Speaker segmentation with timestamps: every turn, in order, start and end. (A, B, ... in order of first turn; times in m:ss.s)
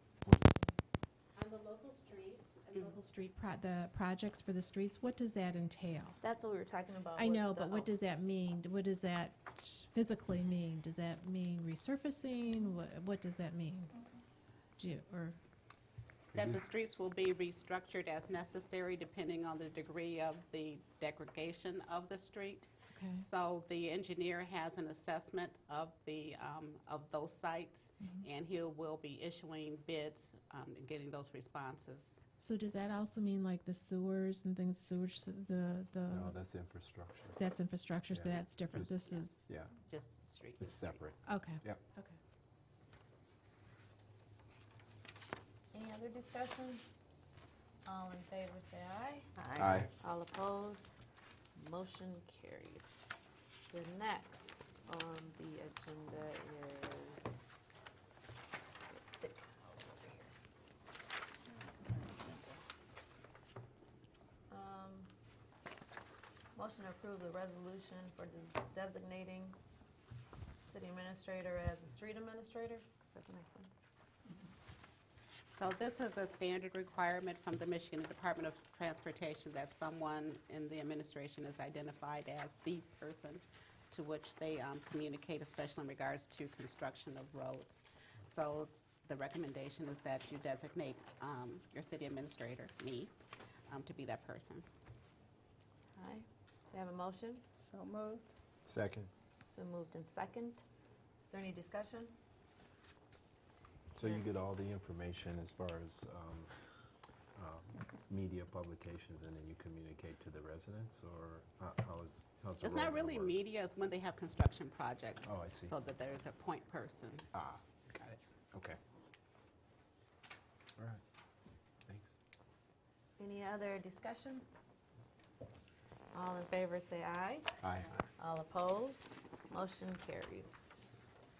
0:00.2-0:00.5 A
0:01.6-0:06.2 B
0:06.2-0:07.9 C
0:07.2-0:13.9 B
0:14.8-0:15.4 B
0:16.3-0:16.6 A
0:16.3-0:32.2 D
0:22.9-0:23.2 B
0:32.4-0:36.4 B
0:36.1-0:37.4 A
0:37.4-0:39.5 B
0:38.1-0:38.8 A
0:38.3-0:39.2 D
0:39.4-0:39.7 A
0:39.8-0:41.1 D
0:40.6-0:41.8 A
0:41.2-0:42.2 B
0:45.7-0:46.8 C
0:47.8-0:49.3 C
0:49.4-0:49.9 E
0:49.6-0:49.9 A
0:50.0-0:51.0 C
0:51.6-0:53.0 C
0:53.7-0:57.6 C
0:58.7-1:00.3 C
1:01.5-1:02.6 E
1:04.5-1:05.1 C
1:06.5-1:09.6 C
1:10.6-1:13.7 C
1:15.5-1:33.1 D
1:33.7-1:34.6 D
1:36.0-1:37.4 C
1:37.6-1:38.3 E
1:38.6-1:39.1 A
1:39.6-1:40.6 C
1:41.2-1:42.1 C
1:43.9-1:46.5 A
1:47.3-1:53.3 A
1:52.6-1:57.3 D
1:55.2-1:55.7 A
1:57.3-1:58.8 A
2:01.8-2:02.2 A
2:03.2-2:04.4 C
2:06.1-2:07.6 C
2:07.6-2:07.9 A
2:08.2-2:10.6 C